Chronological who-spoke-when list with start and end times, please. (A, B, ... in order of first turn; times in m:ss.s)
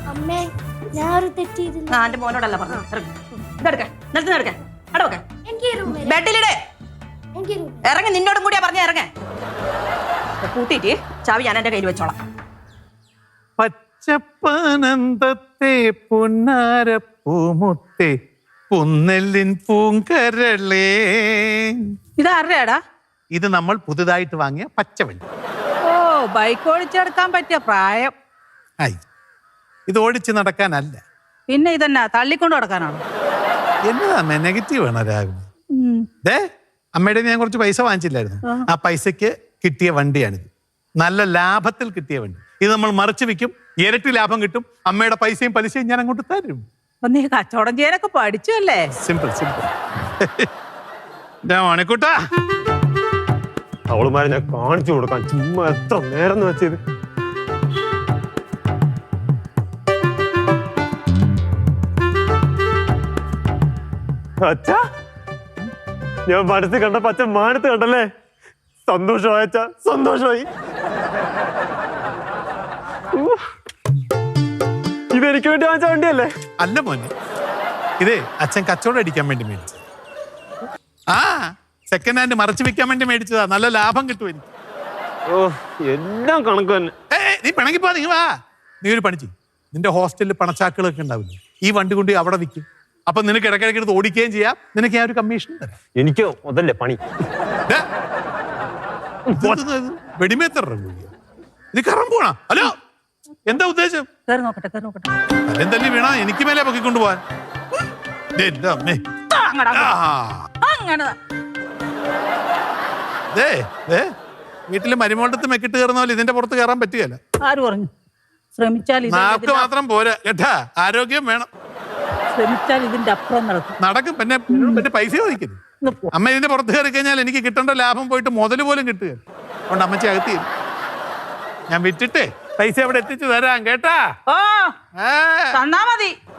0:00.1-0:02.1 A
0:01.9-0:05.2 B
0:05.5-0:06.2 A
0:06.0-0:06.6 B
0:07.3-0:07.9 A
0:07.8-0:09.1 B
0:10.4-0:12.2 B
0:13.6-0:18.1 C
0:18.7-0:21.6 C
0:22.2-0:22.8 D
0:23.3-0:25.3 C
0:25.9-0:28.1 D
0:29.9-0:31.0 C
0:31.5-0:33.0 D
0:33.8-0:35.5 C
0:35.8-0:36.1 D
0:36.9-0:46.6 C
0:38.4-0:38.7 D
0:47.0-0:48.9 D
0:49.0-0:49.7 C
0:50.2-0:50.5 C
0:51.4-0:52.1 C
0:53.9-0:56.8 E
1:04.4-1:04.8 E
1:06.3-1:08.1 E
1:08.9-1:10.5 E
1:13.2-1:13.4 E
1:15.1-1:16.3 E
1:16.6-1:17.1 C
1:18.0-1:19.8 C
1:21.1-1:24.5 C
1:25.3-1:26.9 E
1:27.1-1:28.3 C
1:28.8-1:35.7 C
1:36.0-1:37.0 E
1:39.3-1:39.6 E
1:39.4-1:41.1 C
1:41.7-1:42.7 C
1:43.5-1:44.1 C
1:44.2-1:45.1 D
1:45.4-1:47.2 C
1:48.4-1:49.2 C
1:49.2-1:50.0 D
1:49.8-1:50.5 C
1:50.6-1:51.1 D
1:53.3-1:54.1 C
1:54.7-1:57.2 C
1:57.4-1:57.9 D
1:58.6-1:59.7 D
1:59.1-2:01.5 C
2:02.3-2:03.7 D
2:03.8-2:05.6 C
2:04.5-2:04.8 D
2:05.8-2:06.1 D
2:06.1-2:10.4 C
2:11.7-2:14.0 C
2:14.3-2:14.7 D
2:15.0-2:15.6 C
2:15.5-2:16.2 D